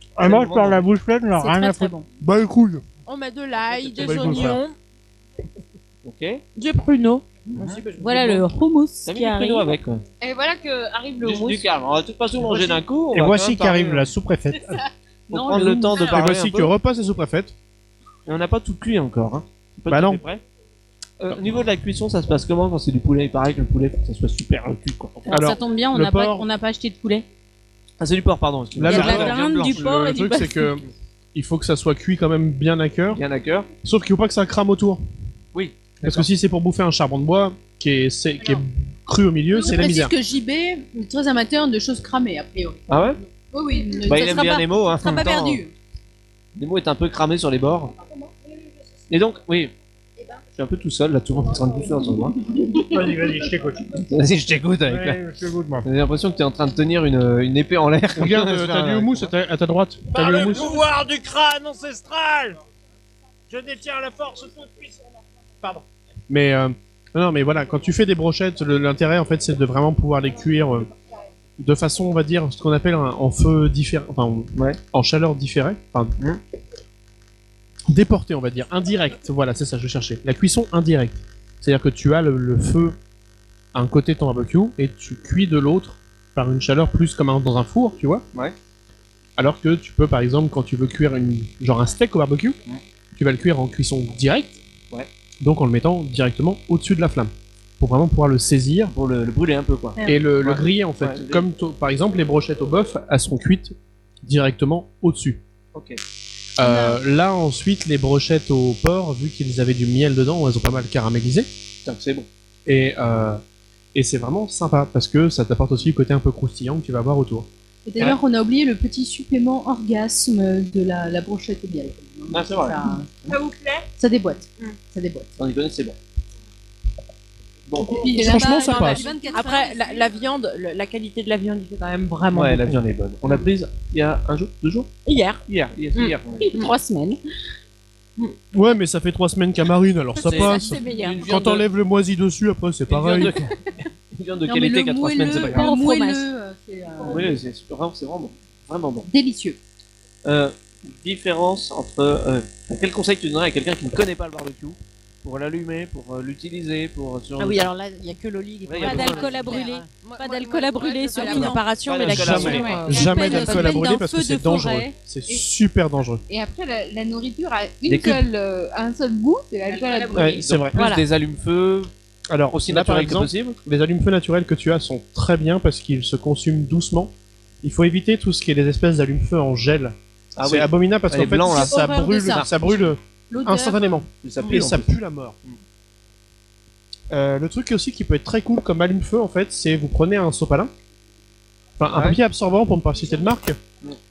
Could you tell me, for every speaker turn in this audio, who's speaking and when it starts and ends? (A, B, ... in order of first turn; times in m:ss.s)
0:00.2-0:01.9 A
0:00.2-0:00.8 B
0:01.3-0:02.0 C
0:02.2-0:02.8 D
0:03.0-0:04.7 E
0:03.7-0:04.6 B
0:04.0-0:04.6 D
0:06.0-0:06.4 B
0:06.6-0:06.8 E
0:06.6-0:07.2 C
0:07.5-0:08.4 B
0:07.6-0:08.1 A
0:08.0-0:09.7 C
0:09.0-0:10.0 B
0:10.2-0:11.7 E
0:11.2-0:14.1 B
0:12.7-0:14.8 A
0:15.3-0:16.1 F
0:15.3-0:16.7 B
0:16.0-0:17.5 D
0:18.2-0:20.4 B
0:19.9-0:20.2 D
0:21.2-0:25.4 B
0:25.2-0:27.2 C
0:25.3-0:26.4 D
0:28.0-0:30.0 B
0:28.8-0:33.2 D
0:28.8-0:30.8 C
0:33.1-0:33.7 B
0:33.8-0:35.0 D
0:35.5-0:36.3 B
0:36.0-0:40.1 D
0:39.5-0:45.7 F
0:42.9-0:43.2 B
0:44.0-0:45.6 B
0:46.6-0:47.9 B
0:49.1-0:49.7 B
0:50.6-0:52.4 B
0:52.9-0:53.9 A
0:54.0-0:55.2 B
0:54.9-0:55.9 A
0:55.8-0:59.3 B
0:58.2-1:00.8 D
1:00.1-1:02.6 A
1:03.5-1:05.0 A
1:06.3-1:10.9 D
1:11.6-1:16.1 D
1:14.5-1:14.8 B
1:17.9-1:23.0 D
1:23.7-1:28.2 D
1:29.4-1:32.6 D
1:33.1-1:34.6 D
1:35.4-1:38.9 D
1:38.9-1:41.5 B
1:40.0-1:45.4 D
1:45.7-1:46.0 B
1:46.6-1:51.5 D
1:46.6-1:47.0 F
1:51.8-1:52.3 B
1:52.6-1:53.4 D
1:53.9-1:57.5 D
1:57.8-2:03.1 F
2:02.3-2:03.4 B
2:03.3-2:03.8 E
2:04.0-2:05.3 F
2:05.4-2:06.0 B
2:07.7-2:08.0 B
2:07.8-2:10.1 F
2:07.9-2:12.8 E
2:08.2-2:09.0 D
2:12.3-2:14.9 B
2:15.0-2:15.4 E
2:15.5-2:16.6 B
2:15.9-2:16.7 E
2:16.4-2:17.2 C
2:18.5-2:23.4 D
2:20.2-2:21.6 B
2:20.3-2:21.2 C
2:22.9-2:23.5 B
2:24.1-2:25.7 B
2:24.5-2:27.4 F
2:25.5-2:26.3 C
2:27.0-2:29.1 B
2:29.1-2:29.6 F
2:30.2-2:37.7 B
2:37.4-2:43.8 C
2:38.6-2:39.6 B
2:38.8-2:43.7 E
2:41.2-2:43.0 B
2:42.2-2:46.2 D
2:42.9-2:44.9 F
2:46.3-2:50.4 G
2:47.9-2:48.2 B
2:49.8-2:50.2 E
2:50.1-2:50.8 D
2:50.2-2:51.9 B
2:52.3-3:05.4 D
2:52.5-2:53.6 B
3:00.4-3:01.7 B
3:01.3-3:03.9 F
3:04.2-3:04.9 B
3:07.1-3:10.7 D
3:11.8-3:13.6 D
3:11.9-3:12.2 B